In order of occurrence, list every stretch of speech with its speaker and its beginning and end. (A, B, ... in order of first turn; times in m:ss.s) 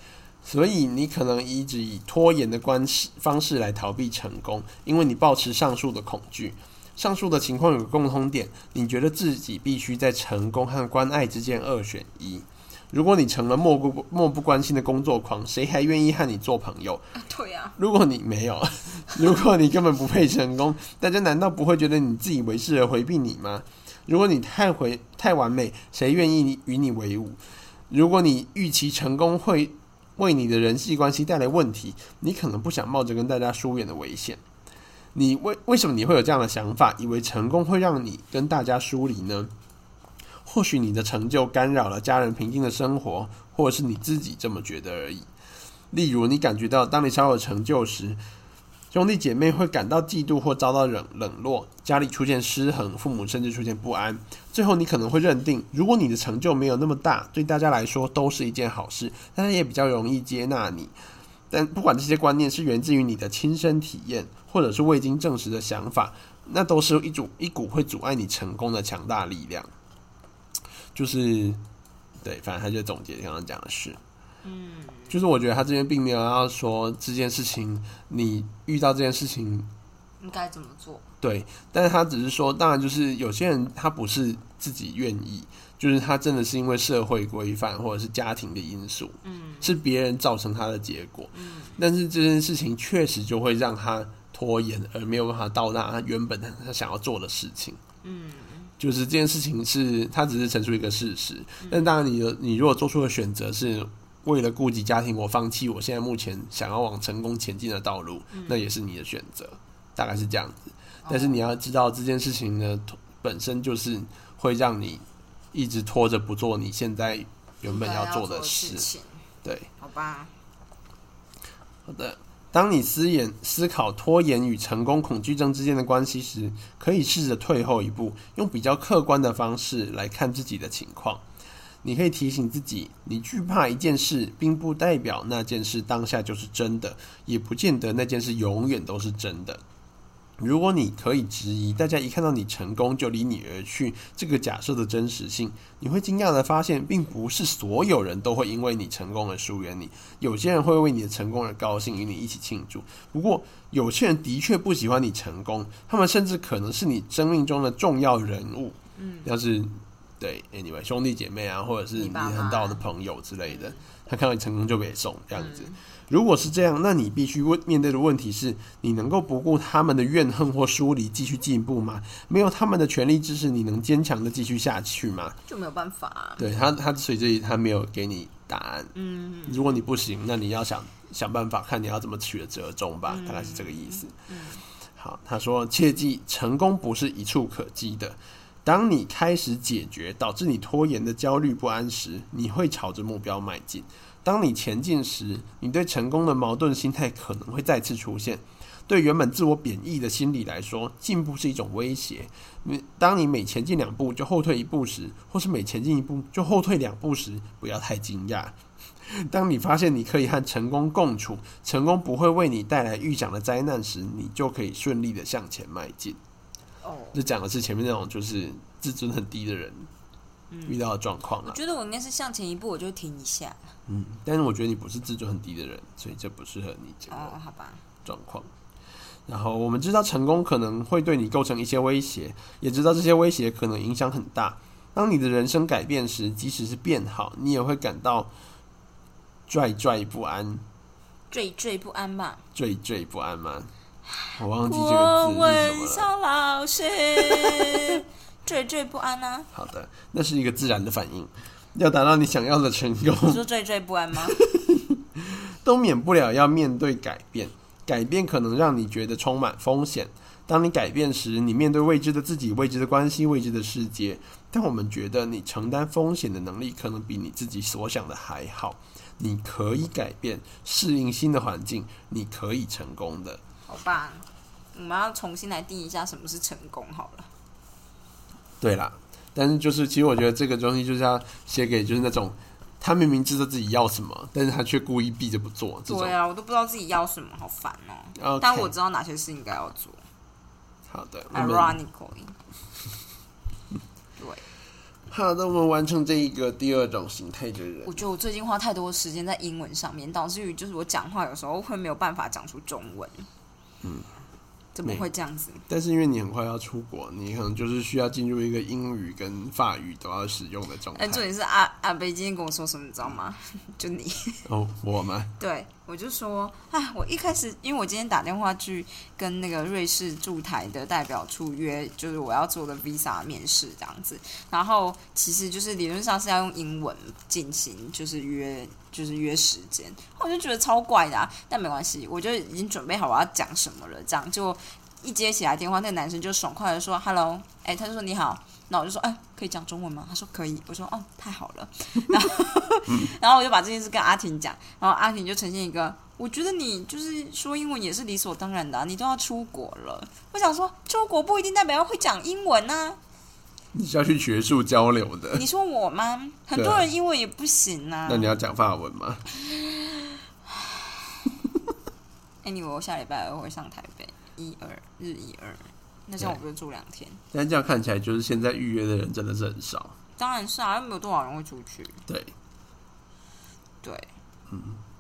0:00.4-0:17.1 A
0:17.2-0:17.8 B
0:17.8-0:27.4 A
0:27.9-0:34.4 A
0:35.1-0:39.5 A
0:40.4-0:45.3 A
0:45.9-0:48.2 A
0:48.9-1:00.9 A
1:01.5-1:09.7 A
1:11.0-1:11.6 A
1:12.2-1:14.0 A
1:14.4-1:15.2 B
1:15.1-1:19.7 A
1:20.2-1:21.0 B
1:21.2-1:37.8 A
1:29.2-1:29.8 B
1:31.3-1:31.8 B
1:38.0-1:38.7 B
1:38.8-1:58.9 A
1:41.6-1:41.9 B
1:48.3-1:48.6 B
1:51.0-1:51.4 B
1:57.6-1:59.2 B
1:59.4-1:59.7 A
1:59.8-2:00.3 B
2:01.9-2:11.2 A
2:11.8-2:19.6 A
2:20.4-2:55.4 A
2:39.0-2:39.3 B
2:42.0-2:42.8 B
2:43.5-2:43.8 B
2:45.4-2:45.8 B
2:55.5-2:56.4 B
2:56.4-2:58.9 A
2:59.0-2:59.8 B
2:59.5-3:04.2 A
3:03.1-3:04.6 B
3:05.0-3:36.2 A
3:36.8-3:37.2 B
3:37.1-3:39.9 A
3:40.5-3:40.8 B
3:40.7-3:41.6 A
3:41.4-3:43.7 B
3:43.9-3:47.3 A
3:47.1-3:47.8 B
3:48.0-3:48.5 A
3:49.3-3:58.3 A
3:59.5-4:00.6 A
4:01.3-4:02.4 B
4:02.6-4:03.7 A
4:04.2-4:09.5 B
4:04.4-4:06.1 A
4:07.3-4:07.8 A
4:09.5-4:13.4 A
4:13.3-4:14.4 B
4:14.4-4:33.4 A
4:33.7-4:37.3 B
4:38.6-4:46.2 A
4:45.9-4:50.0 B
4:48.2-4:48.7 A
4:50.9-4:51.8 A
4:51.3-4:52.4 B
4:54.2-4:54.4 B
4:55.1-4:57.9 A
4:57.8-5:03.3 B
5:03.8-5:04.1 A
5:04.8-5:05.7 B
5:05.7-5:11.2 A
5:10.9-5:14.5 B
5:14.5-5:15.3 A
5:15.4-5:53.0 B
5:53.7-5:55.4 A
5:55.3-5:58.4 B
5:56.6-5:56.9 A
5:58.1-5:59.3 A
5:59.5-6:01.3 B
6:02.4-6:07.2 B
6:07.3-6:10.0 A
6:10.2-6:12.0 B
6:12.1-6:12.3 A
6:13.8-6:14.1 B
6:14.5-6:14.8 A